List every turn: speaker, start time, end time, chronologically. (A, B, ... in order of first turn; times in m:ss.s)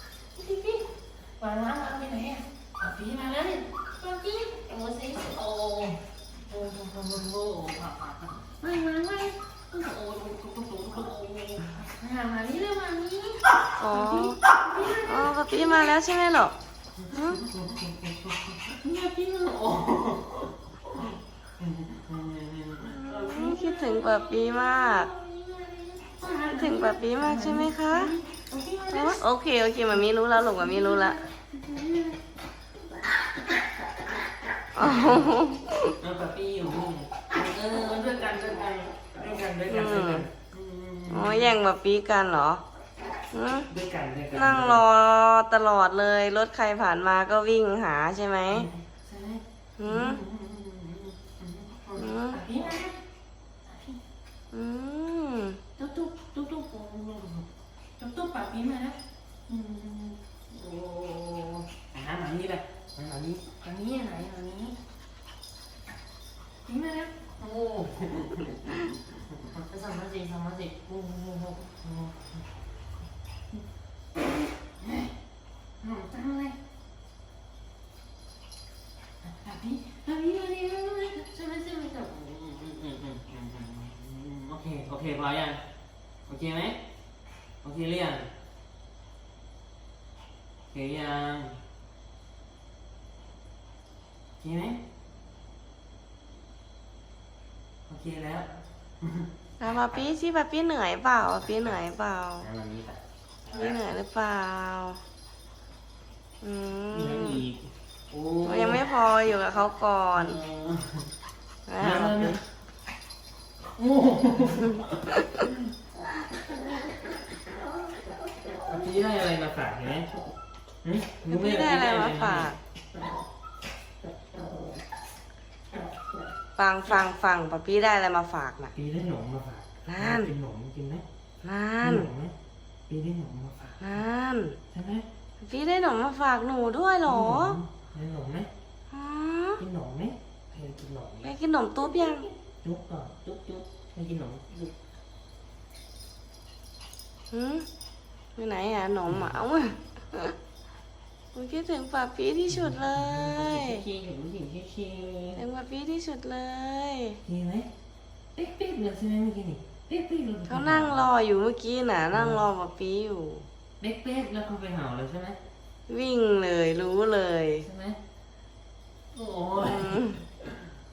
0:00.3-0:15.9 A
0:13.8-0:14.4 B
0:15.0-0:16.5 B
0:17.0-0:29.2 A
0:17.1-0:17.4 B
0:22.8-0:25.1 B
0:26.5-0:28.1 B
0:28.9-0:31.2 B
0:29.9-0:32.2 A
0:34.8-0:35.9 B
0:34.8-0:35.3 A
0:35.9-0:41.5 A
0:39.7-0:40.3 B
0:41.1-0:42.6 B
0:43.3-0:43.7 B
0:43.7-0:44.8 A
0:44.3-0:48.7 B
0:48.5-0:53.0 A
0:49.8-0:50.2 B
0:52.0-0:52.4 B
0:53.6-0:54.0 A
0:54.5-0:55.6 B
0:55.8-0:57.5 A
0:58.0-1:04.8 A
1:06.6-1:12.4 A
1:14.8-1:15.1 A
1:15.8-1:16.6 A
1:19.2-1:25.6 A
1:26.3-1:26.8 A
1:27.6-1:28.3 A
1:30.7-1:31.6 A
1:34.4-1:34.8 A
1:37.8-1:39.3 A
1:39.6-1:42.5 B
1:41.4-1:41.8 A
1:42.4-1:43.8 A
1:43.5-1:45.0 B
1:46.4-1:47.4 B
1:46.9-1:48.8 A
1:48.4-1:50.4 B
1:50.1-1:51.1 A
1:51.7-1:52.4 B
1:51.8-1:52.4 A
1:53.8-1:55.5 A
1:58.5-2:00.1 A
2:00.8-2:02.5 A
2:01.3-2:02.6 B
2:06.6-2:08.7 B
2:08.7-2:11.0 A
2:09.8-2:10.3 B
2:11.4-2:12.1 B
2:11.8-2:12.3 A
2:12.9-2:14.0 A
2:13.8-2:14.6 B
2:14.7-2:15.1 A
2:15.4-2:17.6 B
2:17.0-2:18.5 A
2:18.9-2:19.6 B
2:19.6-2:24.7 A
2:21.2-2:22.3 B
2:27.3-2:27.7 B
2:28.4-2:30.4 B
2:29.1-2:29.3 A
2:31.3-2:33.8 B
2:32.5-2:35.4 A
2:35.4-2:37.2 B
2:37.2-2:37.7 A
2:38.3-2:41.0 A
2:40.5-2:43.5 B
2:42.1-2:42.4 A
2:43.8-2:45.4 A
2:45.9-2:47.7 B
2:47.6-2:48.0 A
2:49.1-2:50.6 A
2:49.6-2:50.2 B